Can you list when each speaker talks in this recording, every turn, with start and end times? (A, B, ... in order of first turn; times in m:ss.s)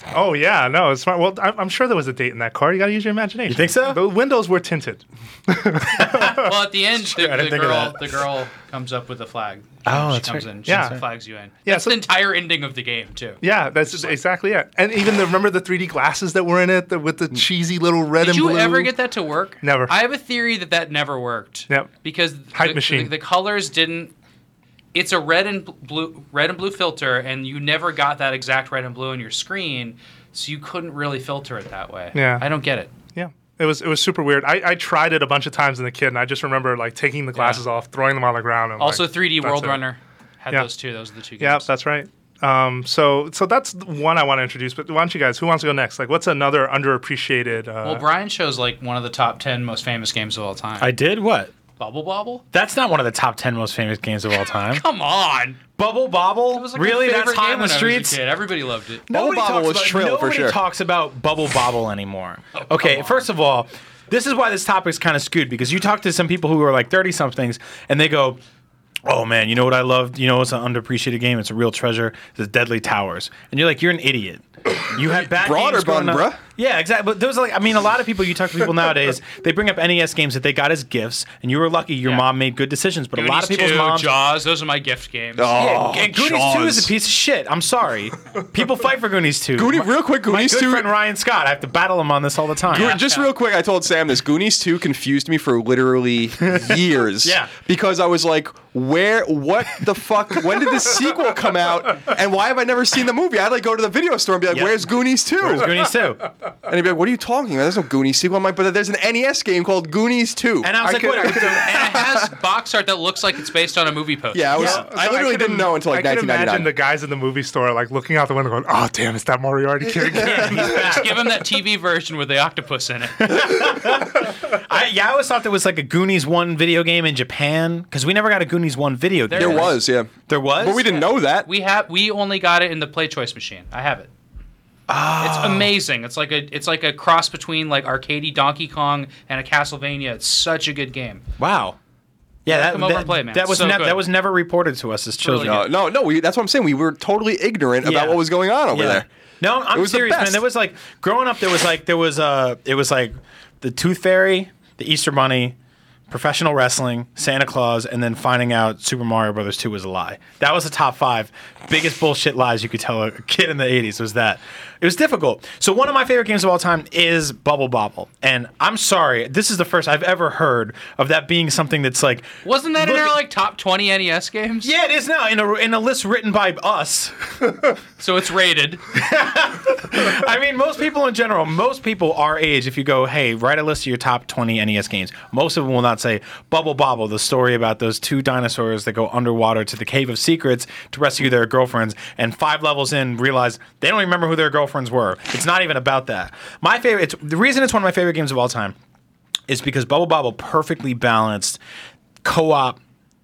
0:00.1-0:06.6 A
0:03.5-0:04.0 B
0:05.9-0:06.5 B
0:06.3-0:14.2 C
0:07.0-0:08.1 B
0:09.8-0:11.0 B
0:10.6-0:11.0 A
0:11.6-0:12.0 A
0:13.4-0:18.9 A
0:18.2-0:24.1 C
0:19.6-0:19.9 A
0:22.5-0:23.1 A
0:24.9-0:32.9 C
0:32.1-0:32.4 A
0:33.1-0:39.8 A
0:37.3-0:37.6 C
0:38.8-0:41.6 C
0:41.4-0:48.0 A
0:47.8-0:50.9 C
0:50.8-0:51.5 B
0:51.8-0:52.4 C
0:52.5-0:54.8 B
0:54.6-0:55.6 C
0:55.8-0:58.2 B
0:56.5-0:59.0 C
0:59.1-1:08.4 B
0:59.1-1:00.6 D
1:02.5-1:03.3 C
1:09.0-1:24.1 B
1:14.9-1:16.4 D
1:23.1-1:25.7 C
1:25.4-1:26.9 D
1:25.5-1:33.0 B
1:29.6-1:30.9 D
1:32.7-1:45.9 D
1:32.7-1:33.3 C
1:36.4-1:37.5 B
1:44.5-1:44.8 B
1:45.4-1:46.2 B
1:46.7-1:52.2 D
1:50.6-1:52.0 B
1:50.8-1:51.6 A
1:51.5-1:54.5 C
1:54.3-1:56.7 D
1:54.5-2:01.0 A
1:54.5-1:54.8 B
2:00.1-2:00.5 D
2:00.1-2:01.2 B
2:00.6-2:03.7 C
2:03.2-2:11.0 B
2:09.3-2:09.8 C
2:09.3-2:11.5 D
2:10.9-2:14.1 C
2:14.9-2:15.7 B
2:15.2-2:21.2 C
2:21.4-2:21.8 B
2:22.4-2:25.6 B
2:22.5-2:24.0 C
2:25.2-2:25.7 C
2:25.4-2:29.1 D
2:27.8-2:35.6 B
2:29.7-2:30.4 D
2:36.1-2:53.2 B
2:52.4-2:54.7 C
2:54.6-2:57.3 B
2:58.0-2:58.8 C
2:58.9-3:18.7 B
3:19.5-3:21.6 B
3:22.2-3:22.8 B